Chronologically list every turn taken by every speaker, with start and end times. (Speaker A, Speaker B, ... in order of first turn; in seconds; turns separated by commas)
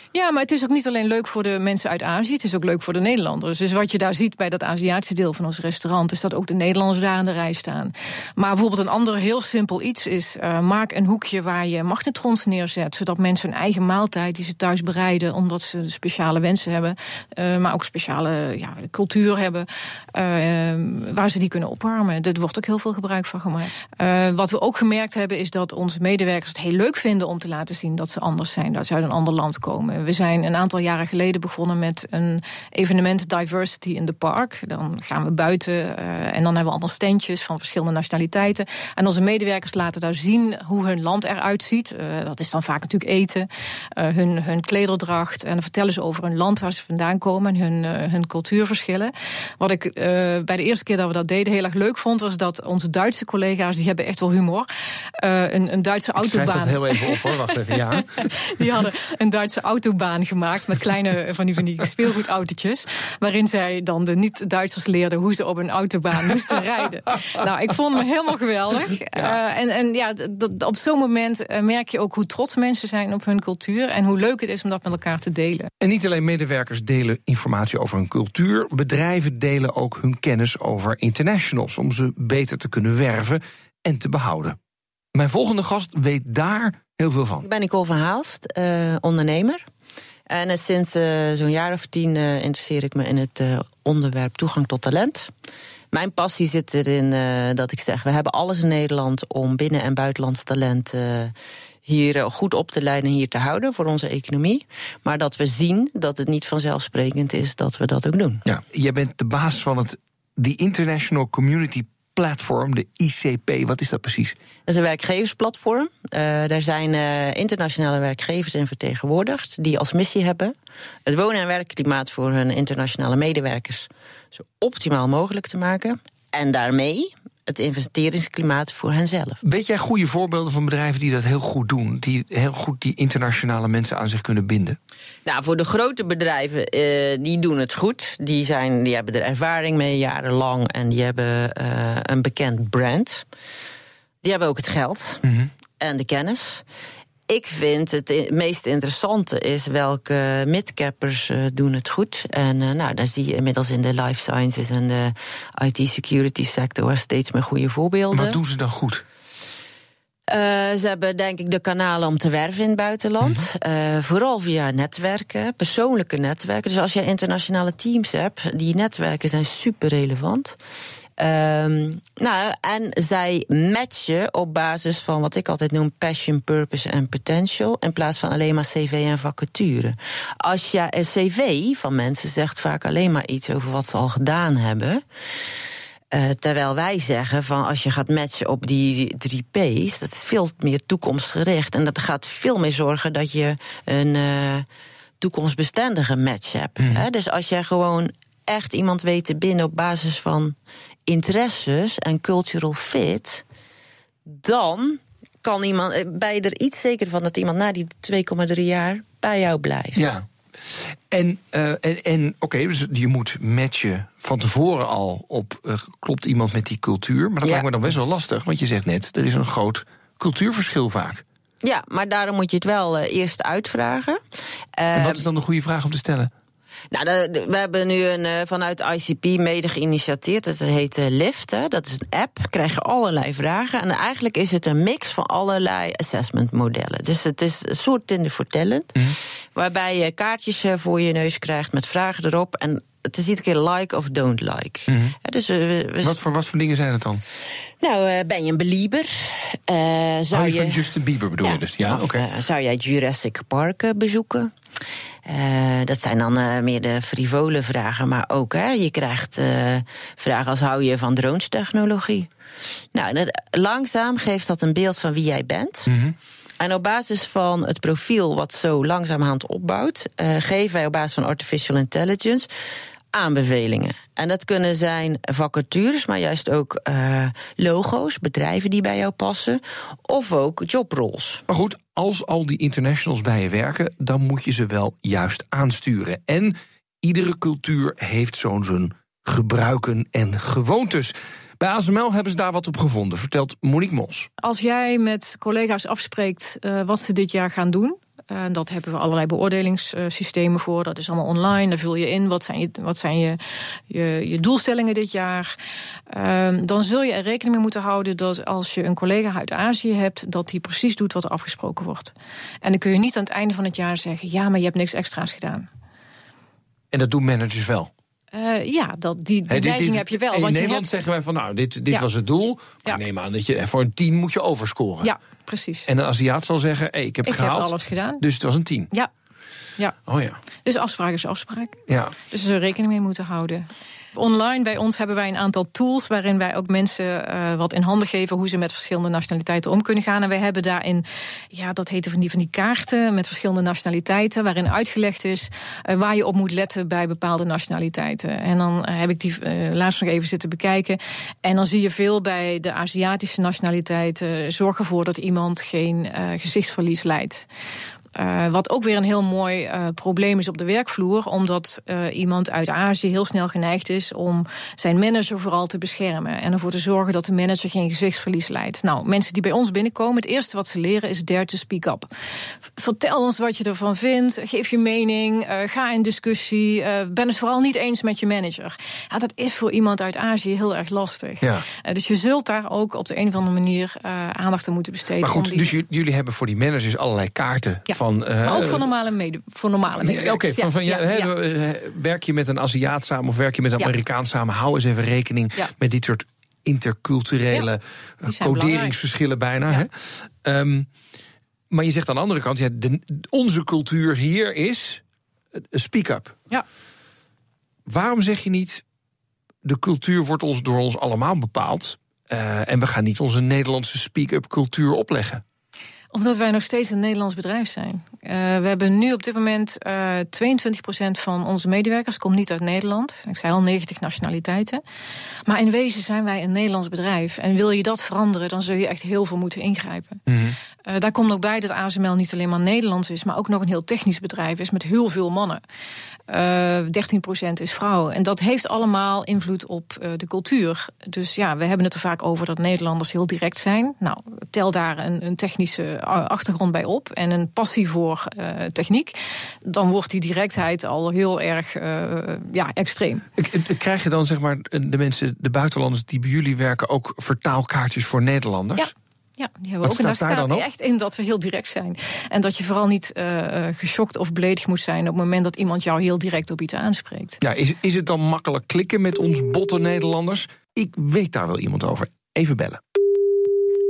Speaker A: 0.1-54.7, Speaker A: 55.2-75.7, Speaker B: 56.2-58.7, Speaker B: 75.8-84.6, Speaker B: 85.1-87.5, Speaker C: 87.4-89.6, Speaker C: 90.3-95.3, Speaker C: 95.9-101.3, Speaker C: 101.8-108.5, Speaker B: 108.5-114.3, Speaker C: 114.7-120.5, Speaker C: 121.0-129.4, Speaker B: 129.4-134.8, Speaker C: 135.2-143.2, Speaker C: 144.2-145.2, Speaker B: 145.2-145.5, Speaker C: 145.8-146.6, Speaker C: 147.3-158.4, Speaker B: 158.1-159.0, Speaker C: 160.3-170.5, Speaker B: 163.2-163.5, Speaker C: 171.2-185.0, Speaker C: 186.1-194.7, Speaker C: 195.2-200.5, Speaker B: 196.8-197.1, Speaker C: 201.1-203.4, Speaker C: 204.2-210.1, Speaker B: 209.9-221.2, Speaker C: 221.6-224.2, Speaker C: 224.8-225.2, Speaker B: 224.9-226.3, Speaker C: 226.9-239.0, Speaker C: 239.5-246.2, Speaker B: 244.9-245.1, Speaker B: 246.0-247.2, Speaker C: 247.8-250.8, Speaker B: 250.3-252.2, Speaker C: 251.4-254.5, Speaker C: 255.2-262.3, Speaker C: 262.9-265.9, Speaker B: 265.9-266.1, Speaker C: 266.6-272.5, Speaker C: 273.1-281.4, Speaker B: 281.5-294.3, Speaker A: 294.4-303.4, Speaker A: 303.9-305.5, Speaker A: 306.1-315.7, Speaker B: 316.9-317.9, Speaker A: 318.3-320.9, Speaker B: 319.5-325.1, Speaker A: 325.0-325.9, Speaker B: 325.9-328.9, Speaker A: 327.2-328.2, Speaker B: 330.1-330.4, Speaker A: 330.6-331.8, Speaker B: 331.9-332.1, Speaker A: 332.3-357.4, Speaker A: 358.1-372.1, Speaker A: 372.8-385.7, Speaker B: 381.4-381.6, Speaker B: 385.2-388.9, Speaker A: 387.9-391.3, Speaker B: 390.0-400.9, Speaker A: 398.3-398.9, Speaker B: 401.7-405.0, Speaker B: 405.6-406.4, Speaker B: 407.9-408.8, Speaker B: 409.6-415.4, Speaker A: 416.1-424.8, Speaker A: 425.4-430.2, Speaker B: 430.3-430.6, Speaker A: 430.8-435.6, Speaker A: 436.3-453.2, Speaker B: 453.4-458.9, Speaker A: 458.8-467.4, Speaker B: 459.8-460.7, Speaker B: 467.4-472.8